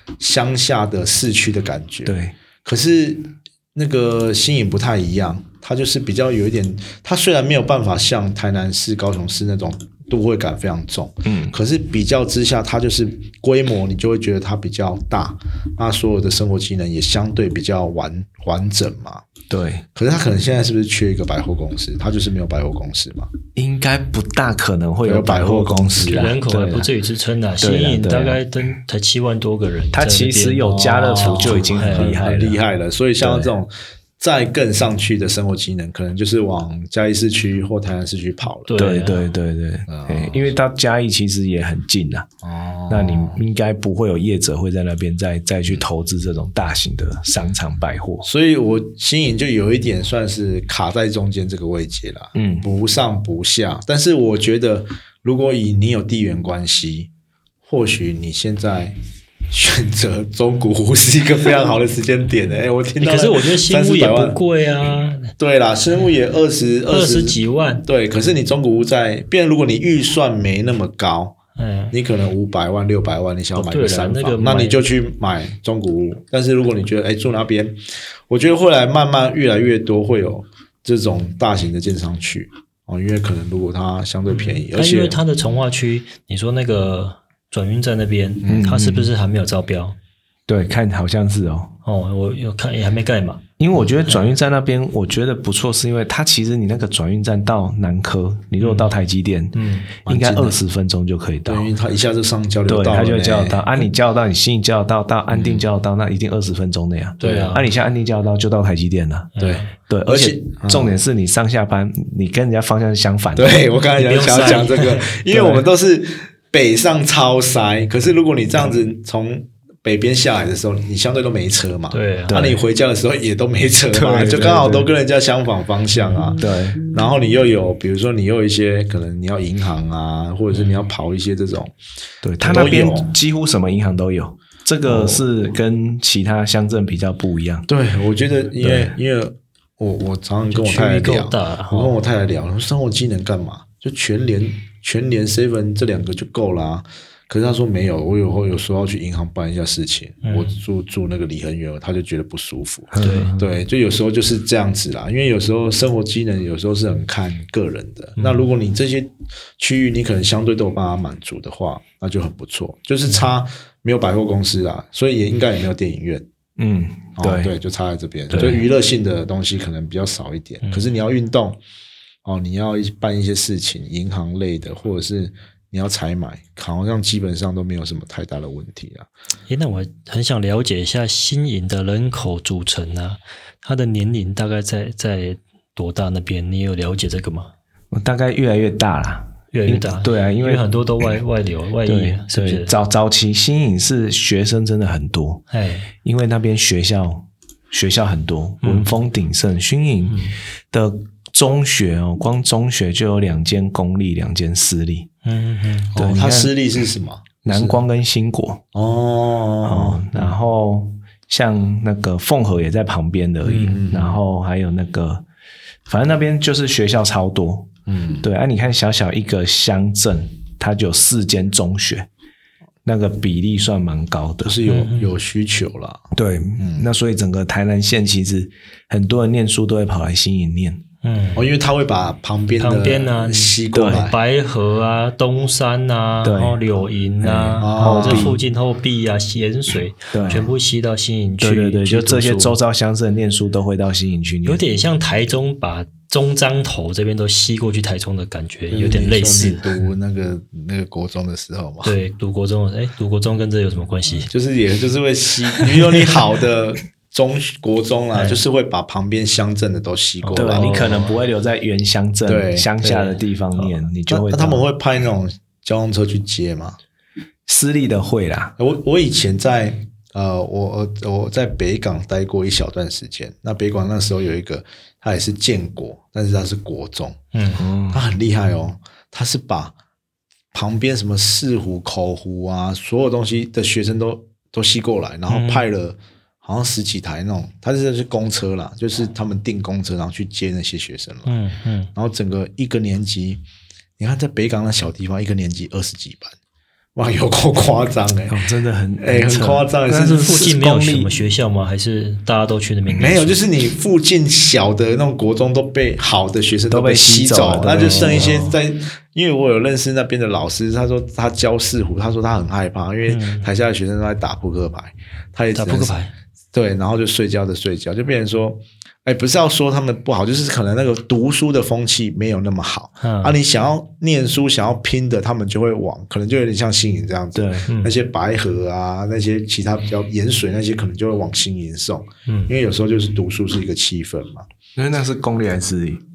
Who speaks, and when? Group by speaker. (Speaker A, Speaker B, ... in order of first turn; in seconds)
Speaker A: 0.2-19.2, 19.9-23.3, 25.0-26.3, 30.6-38.7, 39.9-40.5, 42.4-43.4, 48.2-57.1, 57.6-58.9, 59.5-64.4, 65.3-71.4, 71.9-85.2, 100.0-100.6, 101.5-103.7, 105.3-105.7, 107.2-107.5, 109.4-111.0, 113.3-131.7, 132.4-133.1, 134.8-135.2, 137.7-166.3, 167.2-171.6, 172.2-179.1, 205.9-207.8, 208.7-210.3, 213.4-214.2, 217.9-218.2, 224.4-226.9, 231.3-234.2, 237.6-238.4, 248.7-251.9, 254.3-261.1, 262.3-263.2, 264.1-266.8, 268.6-277.2, 277.9-279.7, 280.5-291.3, 291.9-293.4, 294.0-296.4, 296.9-298.4, 299.0-300.3, 302.9-316.0, 316.5-334.4
Speaker B: 2.0-2.3, 11.2-11.6, 19.5-19.8, 23.5-26.9, 27.6-28.4, 29.9-32.6, 33.2-33.5, 38.8-42.3, 42.9-48.3, 52.3-52.6, 88.5-89.1, 90.5-91.7, 93.6-101.7, 102.7-109.3, 109.8-113.6, 115.3-115.6, 122.3-122.6, 123.9-124.9, 126.4-126.8, 132.2-137.7, 138.6-138.9, 152.9-153.4, 166.6-167.5, 168.3-168.6, 187.9-190.6, 191.8-195.4, 196.0-205.1, 205.9-206.5, 207.4-208.6, 209.6-215.2, 215.9-222.1, 222.8-224.6, 226.1-230.8, 233.7-234.1, 236.2-236.6, 237.2-238.4, 240.1-240.5, 241.4-244.6, 260.3-264.6, 267.5-268.5, 277.6-278.0, 298.3-301.1, 306.7-308.3, 327.3-327.7, 334.8-336.0
Speaker C: 26.1-32.1, 38.6-39.2, 63.0-65.3, 66.9-67.8, 71.6-71.9, 73.5-74.8, 84.3-90.0, 91.8-93.4, 94.1-94.3, 98.6-98.9, 99.5-99.9, 107.2-107.7, 109.3-109.7, 114.0-115.2, 121.9-122.6, 140.5-141.9, 150.2-150.5, 153.0-153.3, 158.2-158.5, 170.6-170.9, 179.5-187.5, 189.5-192.7, 195.5-195.9, 198.6-198.9, 200.1-200.3, 205.2-205.9, 224.6-225.1, 231.0-231.5, 232.6-242.6, 244.4-249.7, 251.8-254.3, 258.1-258.4, 260.2-261.1, 277.3-277.6, 285.3-285.6, 291.2-291.9, 300.1-303.4, 307.7-308.5, 313.1-313.5, 315.6-316.1, 323.0-323.4, 327.7-327.9, 332.3-332.5